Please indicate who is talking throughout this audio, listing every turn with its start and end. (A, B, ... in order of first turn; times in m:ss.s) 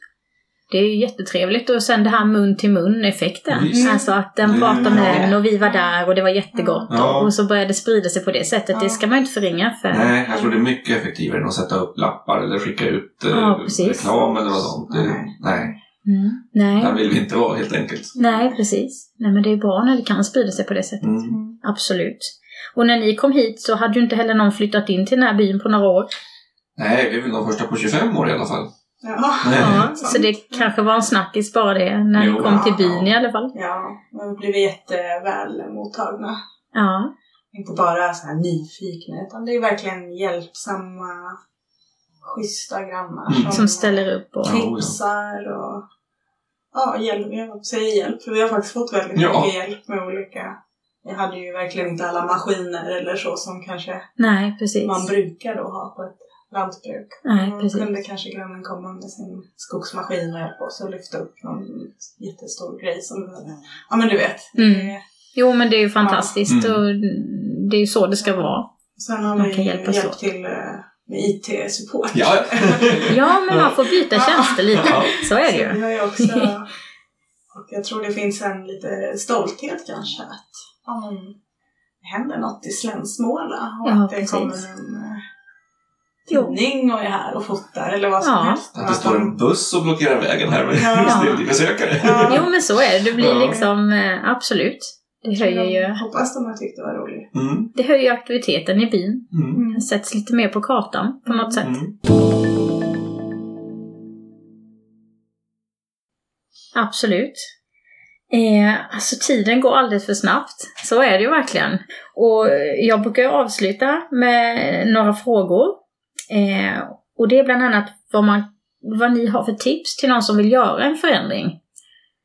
0:00.7-0:10.1 A
0:03.5-0:05.3 B
0:03.7-0:05.9 C
0:06.5-0:06.9 C
0:06.9-0:07.3 B
0:08.7-0:09.0 C
0:09.9-0:15.7 B
0:10.3-0:10.6 C
0:13.3-0:14.1 A
0:14.1-0:15.7 C
0:16.0-0:17.0 A
0:16.8-0:18.1 B
0:18.1-0:18.6 C
0:18.2-0:21.1 A
0:21.0-0:21.4 B
0:21.3-0:21.6 C
0:21.6-0:26.1 A
0:26.8-0:28.7 B
0:29.0-0:30.7 C
0:29.4-0:29.9 B
0:29.6-0:33.5 A
0:32.2-0:33.1 B
0:32.4-0:32.8 C
0:33.5-0:36.4 C
0:36.7-0:37.1 A
0:37.5-0:41.4 C
0:42.2-0:45.8 C
0:43.3-0:43.6 B
0:43.5-0:44.6 A
0:44.4-0:44.9 B
0:46.7-0:54.1 C
0:49.1-0:49.5 B
0:54.2-0:55.1 A
0:54.8-1:05.0 C
0:57.2-0:57.9 A
1:04.6-1:08.7 A
1:06.0-1:06.4 C
1:06.5-1:06.8 B
1:08.2-1:13.2 C
1:09.4-1:10.2 A
1:12.1-1:13.8 B
1:13.1-1:16.5 A
1:14.1-1:16.7 C
1:14.7-1:15.2 B
1:17.5-1:21.4 C
1:22.0-1:25.2 C
1:23.8-1:24.6 A
1:26.2-1:29.3 C
1:26.3-1:26.6 A
1:28.2-1:28.6 A
1:28.8-1:32.4 B
1:30.7-1:31.4 C
1:31.0-1:31.4 A
1:32.0-1:32.5 C
1:32.2-1:36.0 A
1:33.2-1:33.6 B
1:35.3-1:37.3 C
1:37.3-1:37.7 B
1:37.7-1:41.8 A
1:39.3-1:39.6 B
1:39.5-1:39.9 C
1:41.3-1:41.6 C
1:41.6-1:41.9 B
1:46.7-1:47.5 A
1:48.3-1:55.8 A
1:56.3-2:01.6 A